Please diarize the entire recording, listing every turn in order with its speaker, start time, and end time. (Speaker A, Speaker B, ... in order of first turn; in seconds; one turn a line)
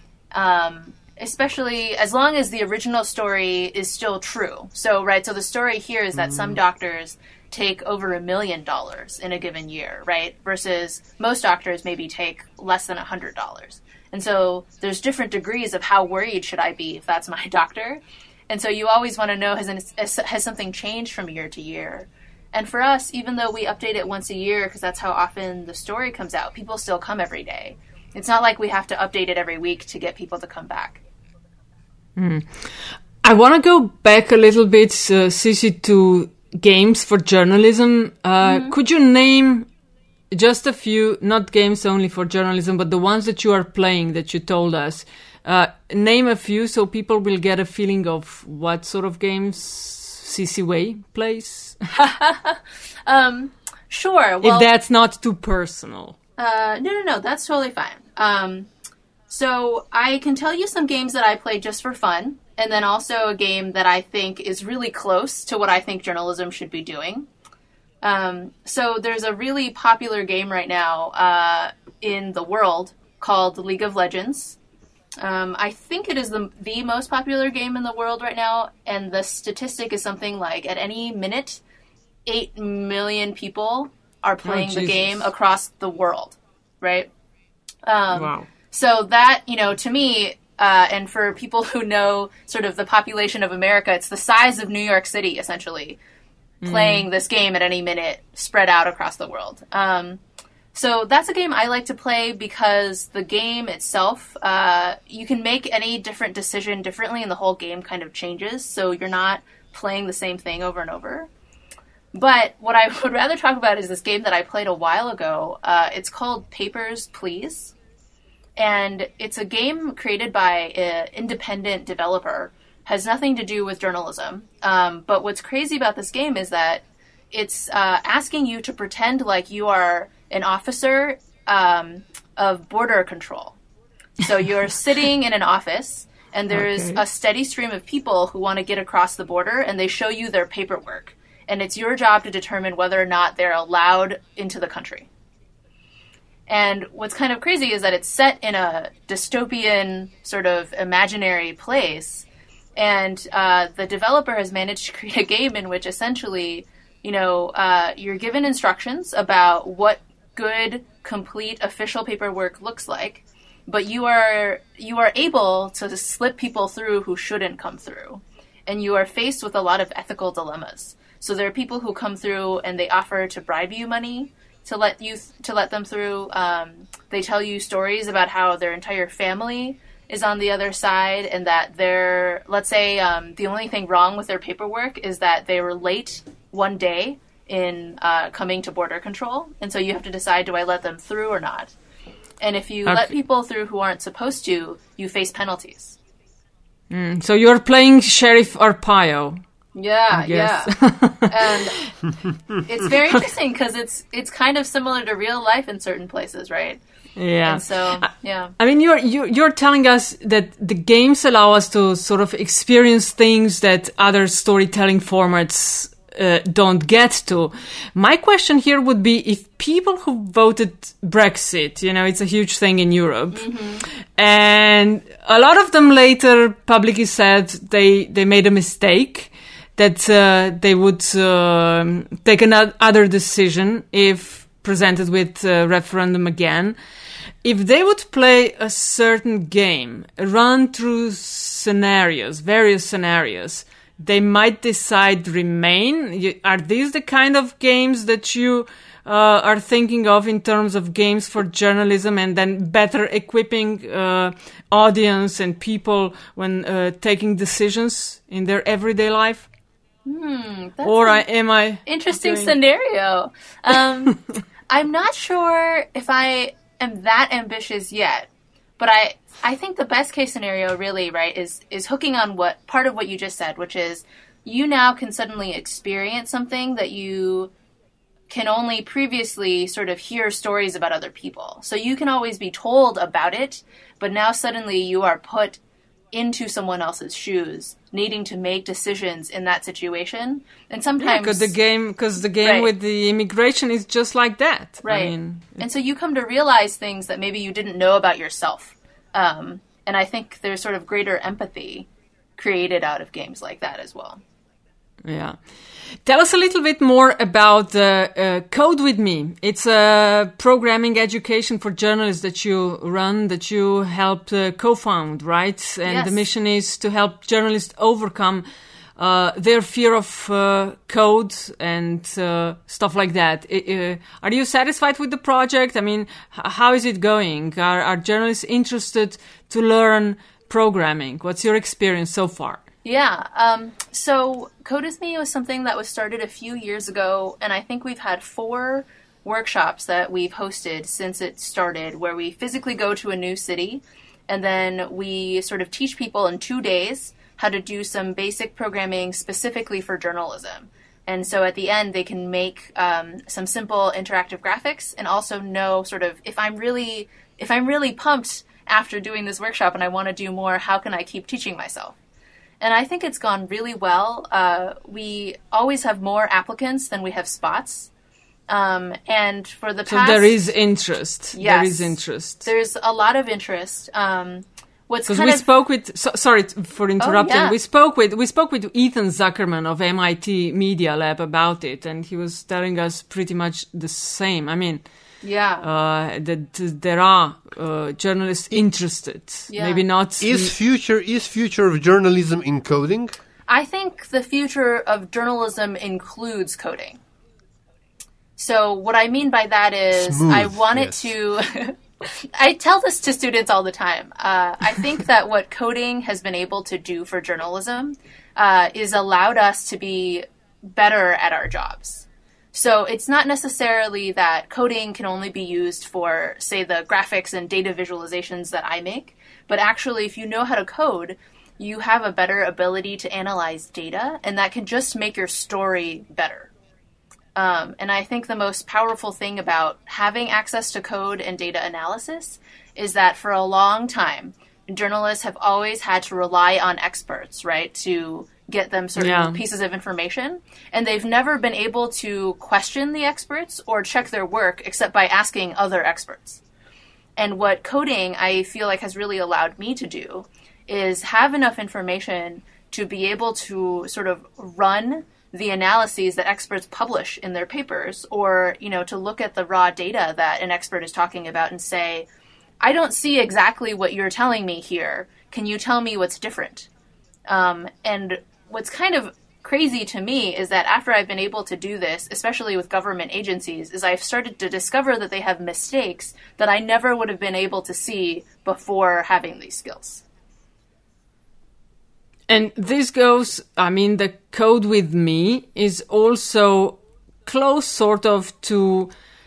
Speaker A: 0.3-31.0
Speaker B: 32.2-39.7
Speaker A: 38.4-38.7
Speaker B: 40.3-51.8
Speaker A: 51.9-54.7
Speaker B: 54.4-56.2
Speaker A: 56.4-58.7
Speaker A: 59.3-67.3
Speaker A: 68.0-74.6
Speaker A: 75.2-81.6
Speaker A: 82.3-87.1
Speaker B: 84.5-85.2
Speaker A: 87.9-96.0
Speaker B: 88.1-88.5
Speaker B: 96.6-97.1
Speaker A: 96.7-100.2
Speaker A: 100.7-111.3
Speaker A: 112.1-117.7
Speaker A: 118.6-133.6
Speaker A: 134.2-145.1
Speaker B: 136.5-137.0
Speaker A: 146.5-191.7
Speaker A: 192.4-195.9
Speaker B: 196.9-199.4
Speaker A: 199.8-201.8
Speaker B: 200.1-201.9
Speaker A: 202.7-206.8
Speaker B: 207.2-236.8
Speaker A: 207.4-208.6
Speaker A: 223.3-223.8
Speaker B: 237.4-259.5
Speaker A: 260.1-261.2
Speaker B: 260.8-262.5
Speaker A: 261.8-268.3
Speaker A: 268.8-277.5
Speaker A: 278.3-285.6
Speaker A: 286.1-291.5
Speaker B: 291.0-295.6
Speaker A: 292.4-292.7
Speaker A: 294.8-304.2
Speaker B: 305.1-305.4
Speaker B: 306.1-318.4
Speaker A: 315.9-316.2
Speaker B: 319.0-332.6
Speaker A: 332.8-362.0
Speaker A: 362.6-367.9
Speaker A: 368.5-370.3
Speaker B: 369.9-372.5
Speaker A: 371.3-375.4
Speaker B: 375.1-384.8
Speaker A: 377.0-377.6
Speaker A: 385.2-385.7
Speaker B: 385.6-390.5
Speaker A: 389.5-389.8
Speaker C: 390.2-393.2
Speaker A: 393.5-397.0
Speaker A: 398.4-426.5
Speaker C: 399.9-401.1
Speaker A: 427.4-446.4
Speaker B: 439.0-439.4
Speaker A: 447.2-462.1
Speaker A: 462.6-466.7
Speaker A: 467.3-480.0
Speaker B: 482.3-488.9